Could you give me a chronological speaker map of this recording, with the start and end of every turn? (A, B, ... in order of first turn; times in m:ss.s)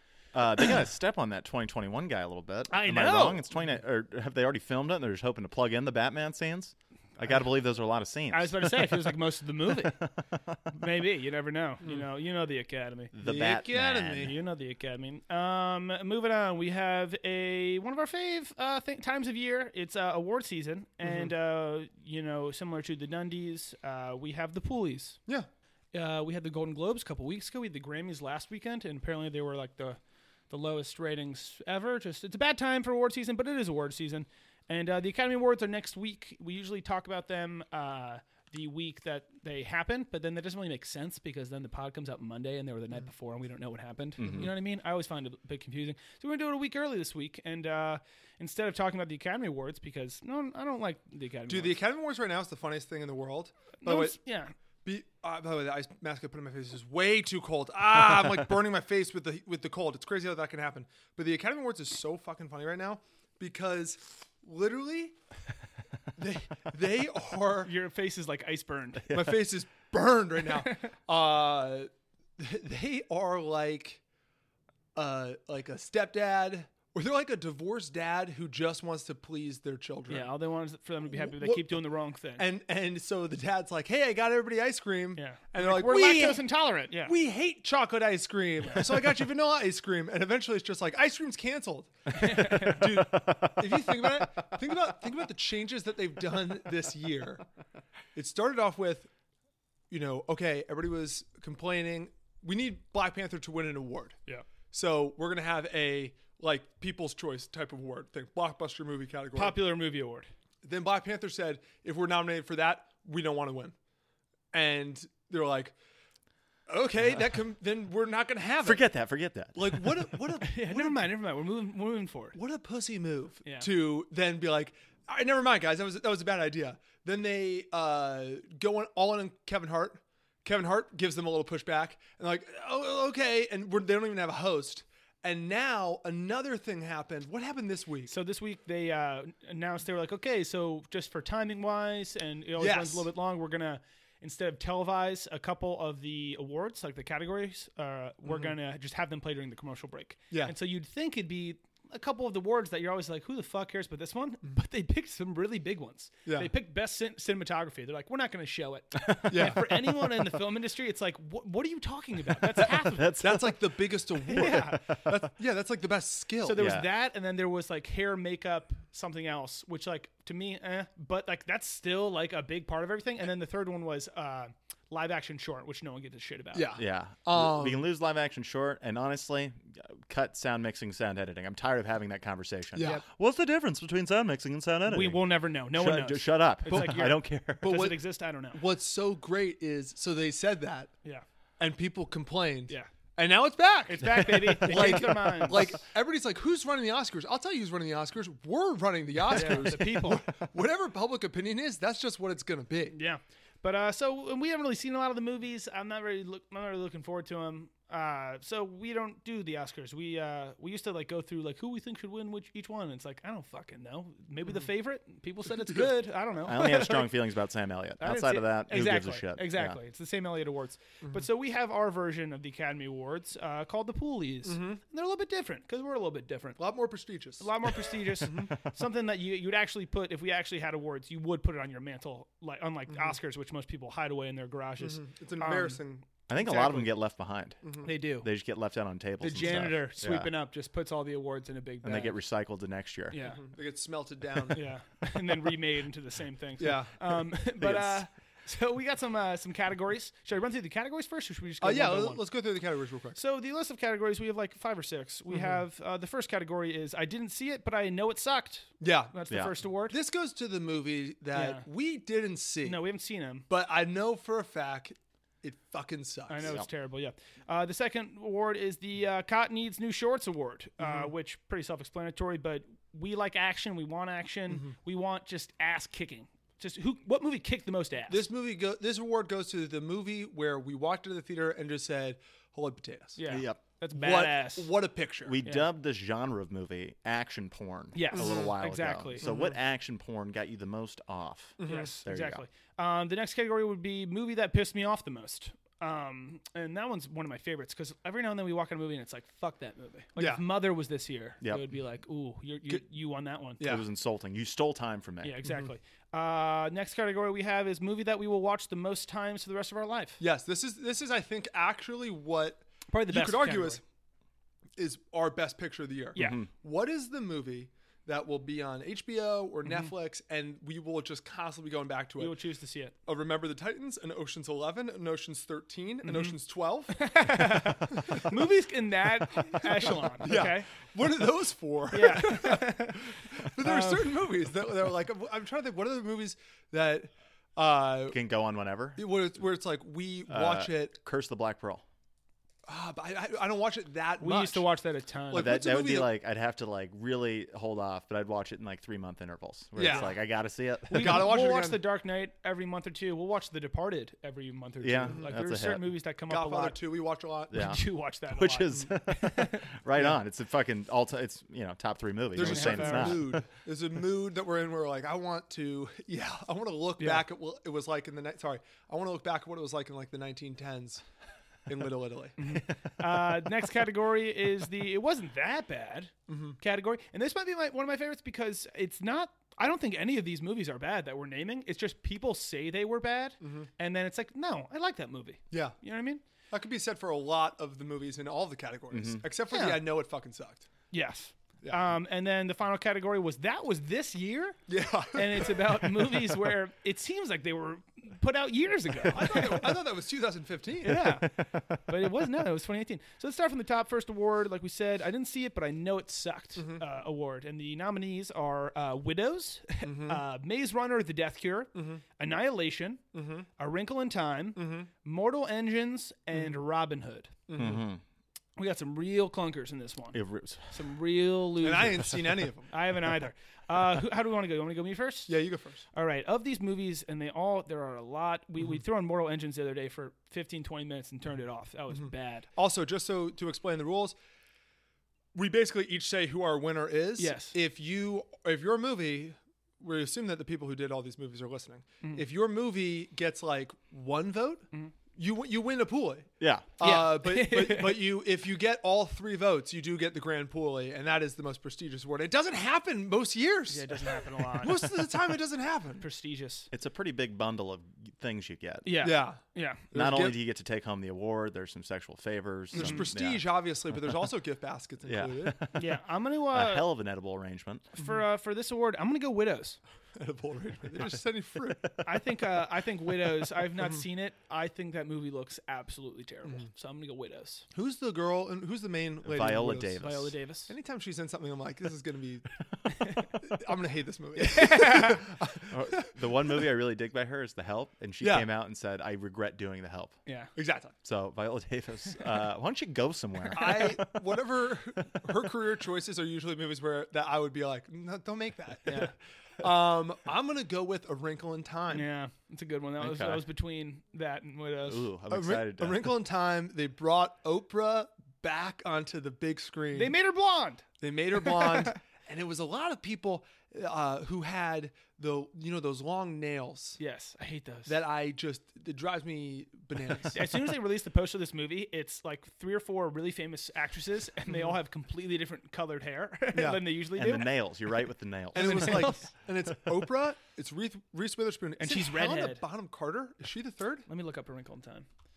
0:00.3-0:10.6 A
0:02.7-0:03.5 B
0:08.3-0:10.0 B
0:10.7-0:25.2 B
0:13.1-0:14.4 A
0:13.2-0:14.3 C
0:25.9-0:30.0 B
0:30.5-0:51.8 B
0:44.2-0:44.5 A
0:51.5-0:54.2 C
0:53.8-0:54.5 B
0:54.8-1:05.2 C
1:06.2-1:07.7 C
1:07.6-1:09.2 B
1:09.1-1:14.0 C
1:15.0-1:20.3 C
1:20.1-1:22.5 B
1:21.1-1:21.8 C
1:22.4-1:26.5 C
1:25.2-1:27.1 B
1:27.0-1:37.4 C
1:28.7-1:29.1 B
1:32.1-1:32.9 B
1:32.8-1:34.5 A
1:38.2-1:39.1 C
1:39.9-1:44.2 C
1:44.7-1:49.7 C
1:49.4-1:50.3 B
1:50.6-1:53.8 C
1:54.5-1:55.8 C
1:56.7-1:58.9 C
1:58.6-2:00.1 A
1:59.5-2:01.1 C
2:00.4-2:02.4 B
2:02.4-2:18.1 C
2:18.1-2:43.2 B
2:22.6-2:23.1 C
2:36.3-2:36.5 C
2:39.0-2:39.6 A
2:39.3-2:39.6 C
2:42.4-2:45.1 A
2:43.2-2:46.7 C
2:44.3-2:44.8 B
2:46.4-2:56.7 B
2:46.6-2:46.9 A
2:56.5-2:57.8 C
2:56.8-3:07.9 A
3:02.8-3:03.0 C
3:04.9-3:08.6 B
3:06.7-3:11.0 C
3:11.6-3:23.0 C
3:13.9-3:15.8 B
3:14.2-3:15.1 A
3:19.3-3:20.2 B
3:22.9-3:37.1 B
3:36.4-3:39.8 A
3:38.0-3:46.6 B
3:44.4-3:44.8 C
3:46.6-3:47.5 C
3:47.4-3:56.9 B
3:48.2-3:48.5 C
3:54.8-3:56.1 C
3:56.3-4:00.3 A
3:57.6-3:57.9 C
3:57.8-3:58.3 B
3:59.2-4:02.2 B
4:01.8-4:03.2 A
4:03.1-4:03.4 B
4:03.2-4:04.6 C
4:04.5-4:12.2 B
4:06.6-4:07.2 C
4:07.6-4:08.1 A
4:11.6-4:13.2 C
4:13.2-4:20.0 B
4:15.3-4:15.6 C
4:18.8-4:19.2 C
4:19.9-4:22.8 C
4:21.3-4:21.7 B
4:22.6-4:23.4 B
4:23.5-4:26.5 C
4:26.3-4:38.3 B
4:30.8-4:31.1 C
4:38.1-4:43.2 C
4:43.2-4:44.7 B
4:43.3-4:43.6 A
4:43.9-4:45.4 C
4:45.2-4:52.4 A
4:48.0-4:49.3 B
4:48.1-4:48.5 C
4:49.2-4:49.5 C
4:51.6-4:52.0 C
4:51.6-5:03.6 B
5:00.2-5:00.4 C
5:01.4-5:01.7 A
5:03.6-5:03.8 C
5:03.6-5:05.4 A
5:05.2-5:10.2 B
5:10.2-5:13.8 C
5:12.9-5:13.8 B
5:14.8-5:22.4 C
5:16.2-5:16.4 B
5:16.2-5:16.5 A
5:22.2-5:23.0 B
5:23.1-5:28.4 C
5:26.0-5:26.4 B
5:26.9-5:30.7 B
5:29.4-5:38.2 C
5:31.9-5:34.2 B
5:38.1-5:39.0 A
5:39.0-5:41.0 C
5:40.3-5:41.8 A
5:42.7-5:44.7 C
5:44.2-5:45.5 B
5:45.3-5:46.1 C
5:45.3-5:51.4 A
5:49.8-5:50.2 C
5:49.8-5:50.1 B
5:50.9-5:56.8 B
5:50.9-5:51.8 C
5:54.8-5:55.9 A
5:56.3-5:57.6 C
5:57.5-6:03.4 A
5:57.5-5:59.7 B
6:02.4-6:11.0 C
6:02.4-6:03.2 B
6:11.7-6:12.7 C
6:12.4-6:26.2 B
6:16.3-6:16.6 C
6:23.4-6:23.7 C
6:25.5-6:25.8 C
6:26.5-6:30.7 C
6:28.9-6:29.2 A
6:29.5-6:29.8 B
6:30.9-6:34.6 B
6:34.7-6:36.2 C
6:35.1-6:39.6 B
6:39.0-6:41.0 C
6:40.8-6:53.0 B
6:40.9-6:42.0 A
6:46.6-6:46.8 C
6:49.8-6:50.2 C
6:51.8-6:52.0 C
6:53.1-6:53.5 C
6:53.6-6:57.3 B
6:54.6-6:54.9 C
6:57.5-6:57.8 C
6:57.6-6:58.0 A
6:58.6-7:05.3 B
7:00.1-7:00.8 A
7:01.6-7:02.7 C
7:05.3-7:05.8 C
7:05.9-7:12.5 B
7:11.9-7:14.2 C
7:15.4-7:36.0 C
7:17.2-7:17.6 B
7:26.4-7:26.7 A
7:26.8-7:28.1 B
7:33.7-7:35.1 B
7:36.0-7:36.7 B
7:36.7-7:39.1 A
7:38.8-7:39.9 B
7:39.0-7:40.4 C
7:39.9-7:44.2 A
7:42.7-7:43.0 B
7:42.7-7:45.6 C
7:45.1-7:46.0 A
7:45.7-7:46.9 B
7:46.5-7:47.9 A
7:48.0-7:49.8 B
7:50.2-7:51.9 C
7:52.0-7:57.6 B
7:57.7-8:00.0 C
7:59.2-8:00.3 A
8:00.0-8:00.7 B
8:00.7-8:02.6 C
8:03.0-8:03.3 B
8:03.1-8:06.1 C
8:04.4-8:05.2 B
8:05.7-8:10.2 A
8:08.2-8:08.5 C
8:10.3-8:10.5 B
8:10.6-8:11.0 C
8:11.0-8:14.4 A
8:13.5-8:22.1 C
8:18.9-8:19.1 B
8:21.9-8:25.1 B
8:23.0-8:23.4 A
8:24.8-8:26.1 A
8:25.3-8:30.2 C
8:30.0-8:30.8 B
8:31.0-8:37.0 C
8:31.5-8:31.9 B
8:37.0-8:38.0 B
8:37.9-8:40.4 C
8:40.3-8:47.5 B
8:44.5-8:44.7 C
8:46.5-8:46.9 C
8:47.2-8:49.1 A
8:48.5-8:54.1 C
8:48.5-8:49.3 B
8:51.8-8:52.6 B
8:54.1-8:55.1 B